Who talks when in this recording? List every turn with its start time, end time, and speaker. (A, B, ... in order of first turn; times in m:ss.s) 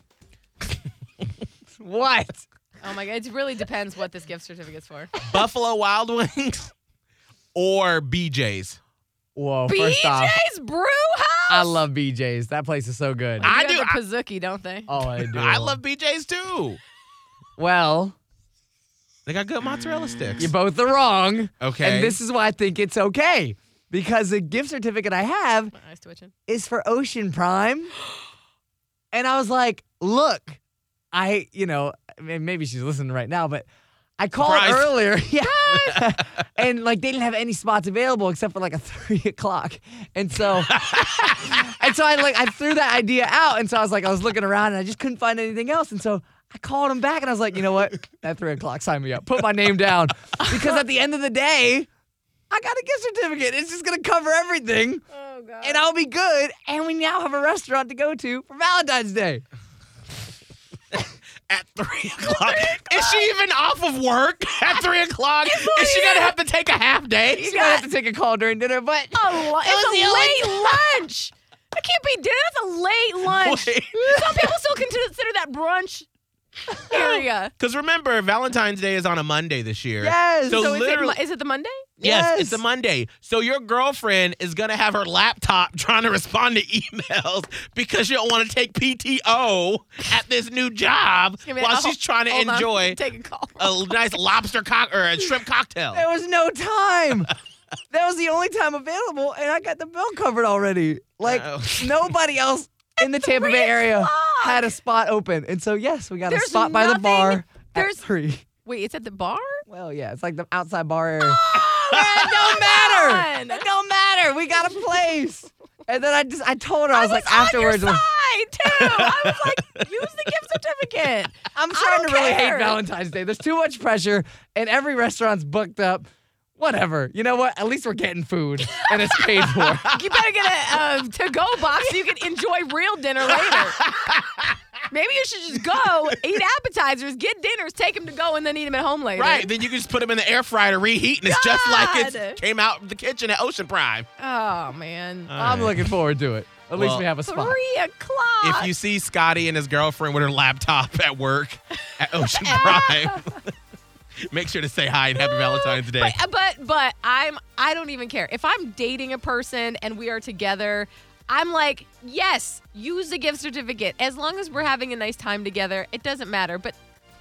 0:01.8-0:02.5 A
0:02.8-0:05.1 B
0:05.2-0:06.7 C
0:07.6-0:08.8 C
0:09.4-0:10.4 A
0:09.7-0:11.8 B
0:11.5-0:13.5 A
0:13.4-0:14.0 C
0:13.4-0:14.9 B
0:14.9-0:15.8 A
0:15.1-0:16.8 C
0:17.6-0:18.2 A
0:19.3-0:20.5 C
0:20.4-0:25.7 A
0:21.6-0:22.2 C
0:25.7-0:26.3 B
0:26.5-0:27.9 A
0:29.1-0:30.6 A
0:31.1-0:33.7 A
0:34.2-0:40.8 A
0:34.4-0:35.1 C
0:35.4-0:36.1 B
0:40.7-0:41.6 C
0:41.4-0:51.9 A
0:52.5-0:55.0 A
0:55.1-0:55.9 B
0:55.6-0:59.4 A
1:00.9-1:07.6 C
1:02.2-1:03.3 B
1:05.4-1:06.4 B
1:07.4-1:07.9 B
1:07.4-1:11.0 A
1:09.1-1:16.1 B
1:13.3-1:14.4 C
1:14.0-1:14.4 A
1:16.8-1:17.5 B
1:16.9-1:17.2 A
1:17.6-1:21.2 C
1:20.0-1:20.7 A
1:20.5-1:21.9 B
1:22.0-1:22.6 A
1:22.0-1:33.0 C
1:31.5-1:33.9 B
1:33.6-1:36.1 C
1:35.9-1:37.3 A
1:37.9-1:48.4 A
1:41.2-1:42.1 C
1:43.0-1:44.7 B
1:46.2-1:48.0 B
1:48.6-1:49.6 B
1:49.7-1:58.0 A
1:51.2-1:53.6 B
1:56.9-2:02.8 B
2:01.6-2:10.0 A
2:08.7-2:13.8 B
2:13.4-2:14.6 C
2:14.9-2:19.5 B
2:19.2-2:24.1 C
2:21.2-2:22.4 B
2:24.2-2:25.4 B
2:25.3-2:25.9 C
2:25.4-2:27.6 A
2:26.7-2:27.1 C
2:27.2-2:28.7 B
2:28.4-2:33.5 C
2:32.0-2:33.3 B
2:34.3-2:36.2 C
2:35.2-2:46.8 B